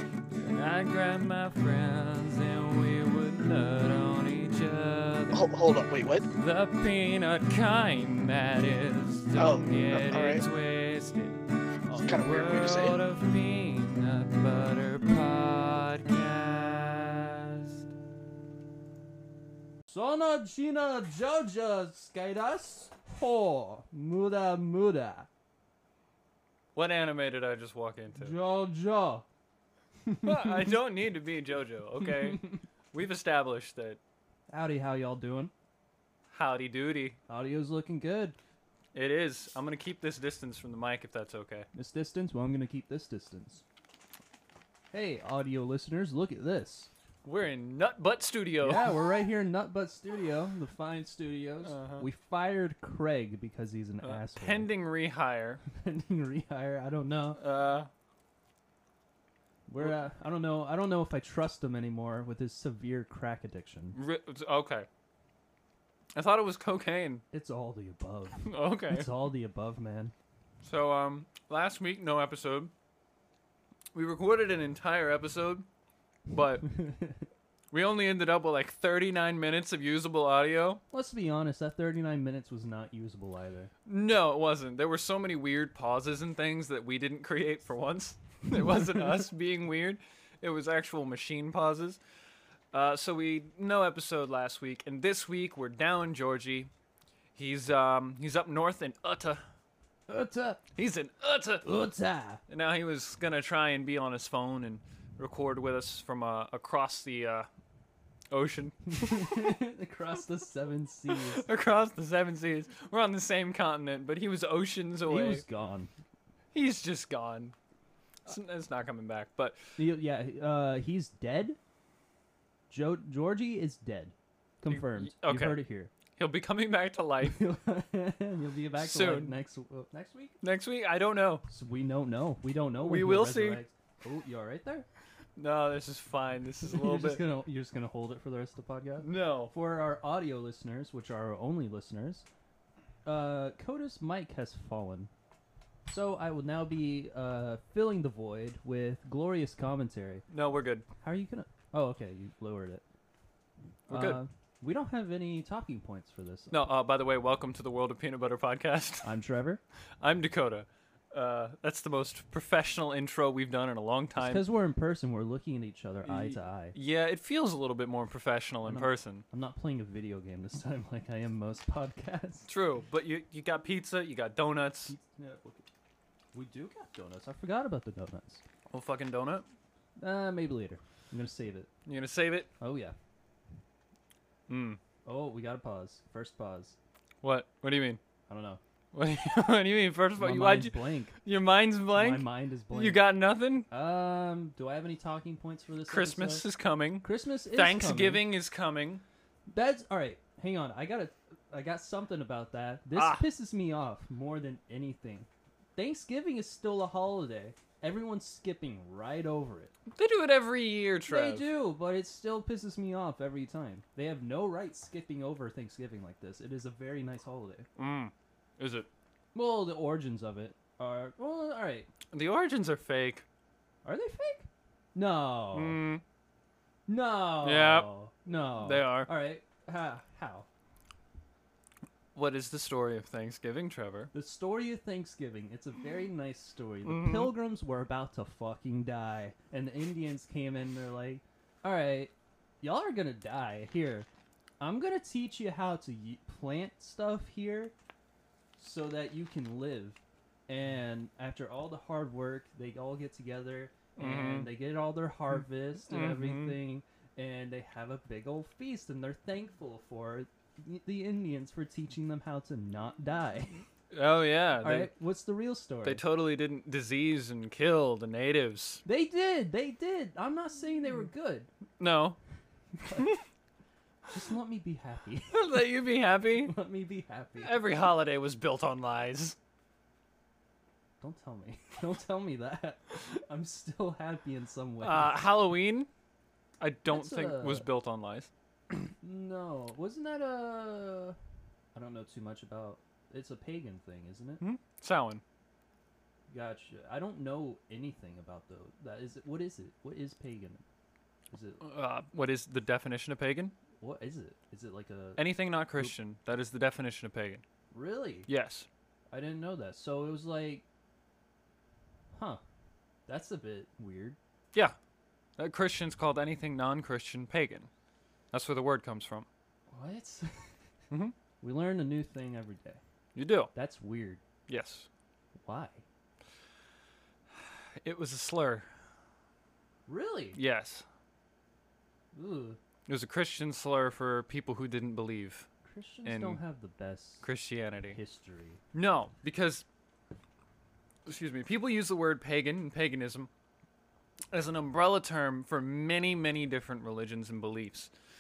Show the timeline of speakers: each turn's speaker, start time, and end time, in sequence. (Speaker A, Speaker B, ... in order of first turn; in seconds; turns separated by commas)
Speaker A: 0.3-5.5, Speaker B: 5.3-6.3, Speaker A: 6.3-11.4, Speaker B: 9.3-10.4, Speaker C: 11.9-12.3, Speaker A: 11.9-17.8, Speaker B: 12.0-13.0, Speaker C: 19.9-25.3, Speaker A: 26.8-28.4, Speaker C: 28.1-29.2, Speaker C: 30.0-30.8, Speaker A: 30.2-34.0, Speaker C: 32.0-32.5, Speaker C: 34.5-35.5, Speaker A: 36.3-37.2, Speaker C: 37.3-38.4, Speaker A: 38.9-41.7, Speaker C: 41.7-43.6, Speaker C: 44.9-46.9, Speaker A: 47.2-49.1, Speaker C: 48.6-54.7, Speaker A: 51.6-52.1, Speaker A: 54.0-55.6, Speaker C: 55.7-57.4, Speaker A: 57.4-57.9, Speaker C: 59.7-64.0, Speaker A: 63.9-64.9, Speaker A: 66.2-67.2, Speaker C: 67.3-70.1, Speaker A: 68.4-69.1, Speaker A: 70.6-72.7, Speaker A: 74.0-75.7, Speaker A: 76.3-76.8, Speaker A: 77.7-80.8, Speaker C: 80.9-83.7, Speaker A: 83.9-92.0, Speaker A: 92.7-96.7, Speaker A: 97.3-99.4, Speaker C: 100.1-100.6, Speaker A: 100.8-101.7, Speaker C: 101.6-102.4, Speaker A: 102.5-107.5, Speaker A: 108.3-109.5, Speaker C: 108.9-111.5, Speaker A: 111.1-115.4, Speaker C: 115.0-115.9, Speaker A: 116.5-117.5, Speaker A: 118.3-119.6, Speaker C: 119.8-121.6, Speaker C: 122.7-125.9, Speaker A: 124.7-125.6, Speaker A: 126.2-127.4, Speaker C: 127.2-130.4, Speaker A: 128.8-129.3, Speaker A: 130.4-131.5, Speaker C: 131.5-134.9, Speaker A: 132.8-133.6, Speaker A: 135.4-137.2, Speaker C: 136.6-142.3, Speaker A: 139.0-139.5, Speaker C: 143.1-145.1, Speaker C: 145.9-150.2, Speaker A: 150.3-150.8, Speaker C: 151.0-152.8, Speaker A: 153.9-154.2, Speaker C: 153.9-156.6, Speaker A: 156.5-159.1, Speaker C: 159.0-159.6, Speaker A: 160.0-164.4, Speaker C: 164.2-166.8, Speaker A: 166.0-169.2, Speaker C: 168.6-172.5, Speaker A: 172.5-175.0, Speaker C: 174.9-175.7, Speaker C: 176.3-178.4, Speaker A: 178.7-179.5, Speaker C: 180.0-181.7, Speaker A: 181.9-182.5, Speaker C: 182.6-183.0, Speaker A: 184.5-184.8, Speaker C: 185.1-186.8, Speaker A: 187.2-188.0, Speaker C: 188.3-188.6, Speaker A: 188.9-193.7, Speaker C: 190.2-191.2, Speaker C: 191.9-193.1, Speaker C: 193.7-196.5, Speaker A: 195.9-199.0, Speaker C: 197.0-198.2, Speaker C: 199.5-209.7, Speaker A: 202.9-203.3, Speaker A: 209.9-211.5, Speaker C: 211.1-217.7, Speaker A: 217.8-218.9, Speaker C: 219.3-221.9, Speaker A: 222.1-223.2, Speaker C: 223.8-225.8, Speaker A: 225.5-226.0, Speaker C: 226.9-230.5, Speaker A: 227.4-227.9, Speaker A: 228.6-229.1, Speaker A: 232.2-234.1, Speaker C: 234.1-244.1, Speaker A: 236.9-237.3, Speaker C: 244.6-247.7, Speaker C: 248.6-263.6, Speaker A: 254.0-254.5, Speaker A: 255.9-256.6, Speaker A: 263.9-264.9, Speaker C: 264.6-266.0, Speaker A: 265.8-268.8, Speaker C: 268.9-271.5, Speaker A: 271.8-272.2, Speaker C: 272.8-273.1, Speaker C: 274.1-275.4, Speaker A: 275.3-276.6, Speaker C: 276.4-277.6, Speaker A: 277.4-279.4, Speaker C: 281.0-285.2, Speaker A: 284.8-285.9, Speaker A: 286.6-288.3, Speaker C: 286.9-287.7, Speaker C: 289.0-291.2, Speaker C: 291.7-294.4, Speaker A: 294.4-295.2, Speaker C: 296.3-300.6, Speaker C: 301.3-301.6, Speaker A: 301.6-303.6, Speaker C: 303.8-305.9, Speaker A: 305.2-307.4, Speaker C: 307.7-308.3, Speaker A: 308.3-308.7, Speaker C: 309.1-310.6, Speaker C: 312.1-312.4, Speaker C: 313.1-314.2, Speaker A: 315.4-317.7, Speaker A: 318.3-319.3, Speaker C: 319.7-320.4, Speaker C: 321.4-322.8, Speaker A: 323.1-323.5, Speaker C: 323.5-324.2, Speaker A: 324.5-324.9, Speaker C: 325.4-325.8, Speaker A: 327.8-328.7, Speaker C: 329.9-330.4, Speaker A: 330.4-330.8, Speaker C: 332.1-332.6, Speaker A: 332.9-335.5, Speaker C: 335.6-337.3, Speaker A: 336.1-336.4, Speaker A: 337.2-338.0, Speaker C: 337.9-338.6, Speaker A: 338.7-339.6, Speaker A: 341.1-343.3, Speaker A: 344.3-347.9